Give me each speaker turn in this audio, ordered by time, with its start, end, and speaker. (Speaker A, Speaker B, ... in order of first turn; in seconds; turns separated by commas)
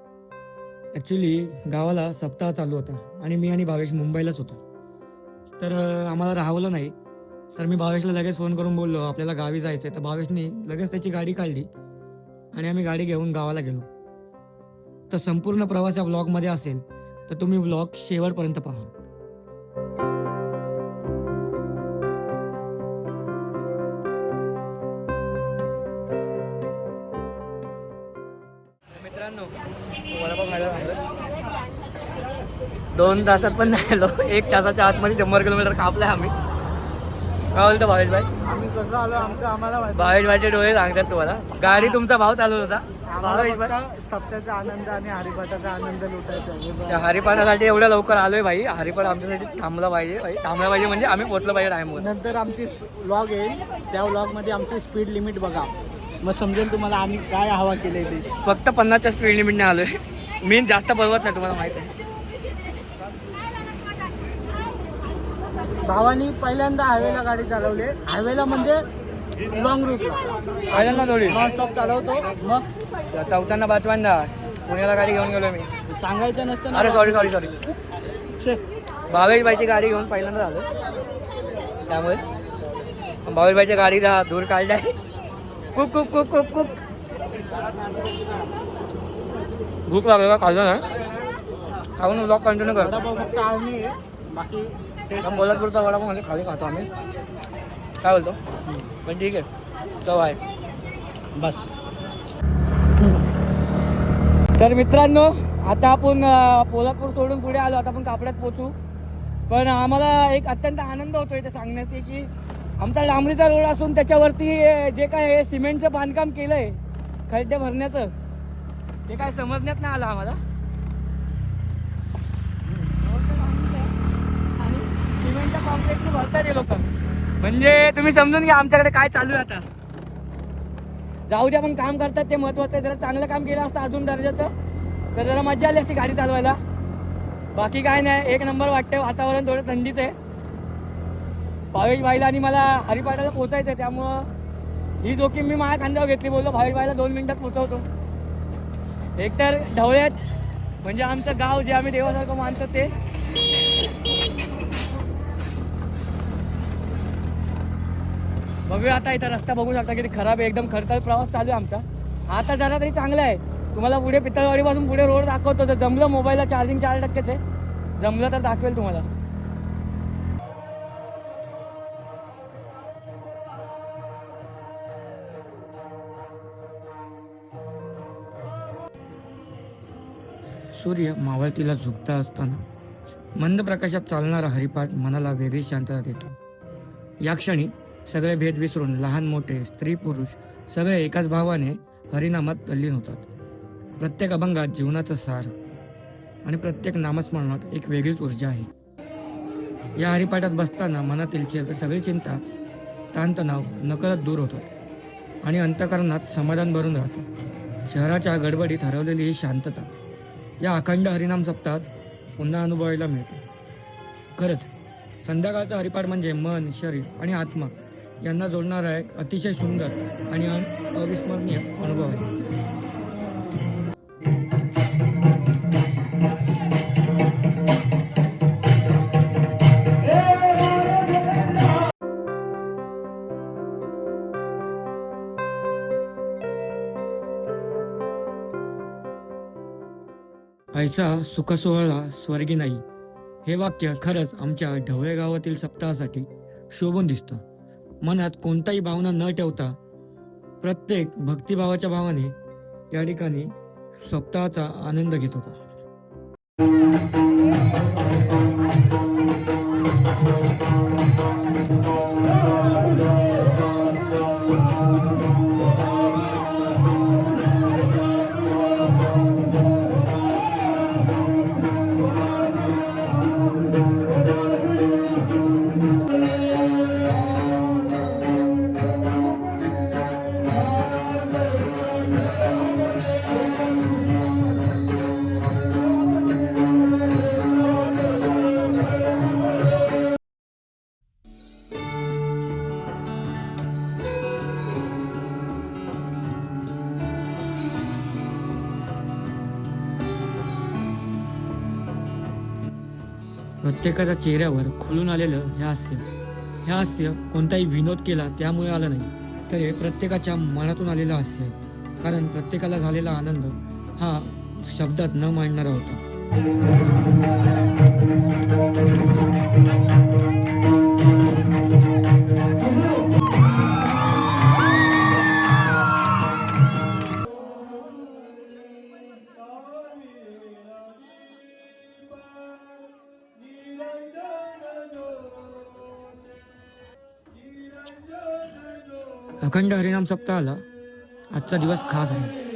Speaker A: 0.9-4.6, Speaker A: 5.6-6.9, Speaker A: 7.6-11.7, Speaker A: 12.5-13.9, Speaker A: 15.1-18.9, Speaker A: 29.0-29.5, Speaker A: 30.1-31.0, Speaker A: 32.9-36.3, Speaker A: 37.5-38.3, Speaker B: 38.4-40.3, Speaker A: 39.9-43.8, Speaker B: 41.6-42.0, Speaker B: 43.1-47.2, Speaker A: 46.9-52.1, Speaker B: 52.0-55.7, Speaker B: 56.2-58.3, Speaker A: 58.5-61.9, Speaker B: 65.8-68.8, Speaker B: 69.5-72.7, Speaker A: 70.7-71.5, Speaker A: 73.1-75.7, Speaker B: 75.9-77.5, Speaker A: 76.7-77.5, Speaker A: 79.1-80.7, Speaker A: 81.9-82.2, Speaker A: 83.3-84.9, Speaker A: 85.8-86.7, Speaker A: 89.9-90.8, Speaker A: 92.0-93.0, Speaker B: 92.6-95.6, Speaker A: 95.2-96.9, Speaker A: 98.0-98.4, Speaker A: 99.0-99.5, Speaker A: 100.0-100.4, Speaker B: 101.4-101.7, Speaker A: 104.6-108.8, Speaker A: 109.5-112.3, Speaker A: 112.8-116.8, Speaker A: 117.3-118.1, Speaker A: 119.1-120.4, Speaker A: 122.9-123.9, Speaker A: 124.6-126.9, Speaker A: 127.4-129.6, Speaker A: 131.3-134.5, Speaker A: 135.2-136.6, Speaker A: 137.5-140.2, Speaker A: 141.7-144.3, Speaker A: 145.0-147.8, Speaker A: 149.2-150.2, Speaker A: 150.8-152.9, Speaker A: 158.7-167.4, Speaker A: 168.0-169.1, Speaker A: 180.7-182.7, Speaker A: 183.4-186.3, Speaker A: 187.2-193.3, Speaker A: 194.0-195.5, Speaker A: 196.4-198.7, Speaker A: 200.0-202.4, Speaker A: 203.1-204.7, Speaker A: 205.4-207.2, Speaker A: 207.9-209.9, Speaker A: 210.6-213.4, Speaker A: 214.3-214.7, Speaker A: 215.2-222.3, Speaker A: 240.7-242.8, Speaker A: 243.4-247.4, Speaker A: 248.0-249.8, Speaker A: 250.6-252.3, Speaker A: 252.9-255.6, Speaker A: 303.6-306.1, Speaker A: 306.7-316.0, Speaker A: 339.4-340.6, Speaker A: 341.3-342.3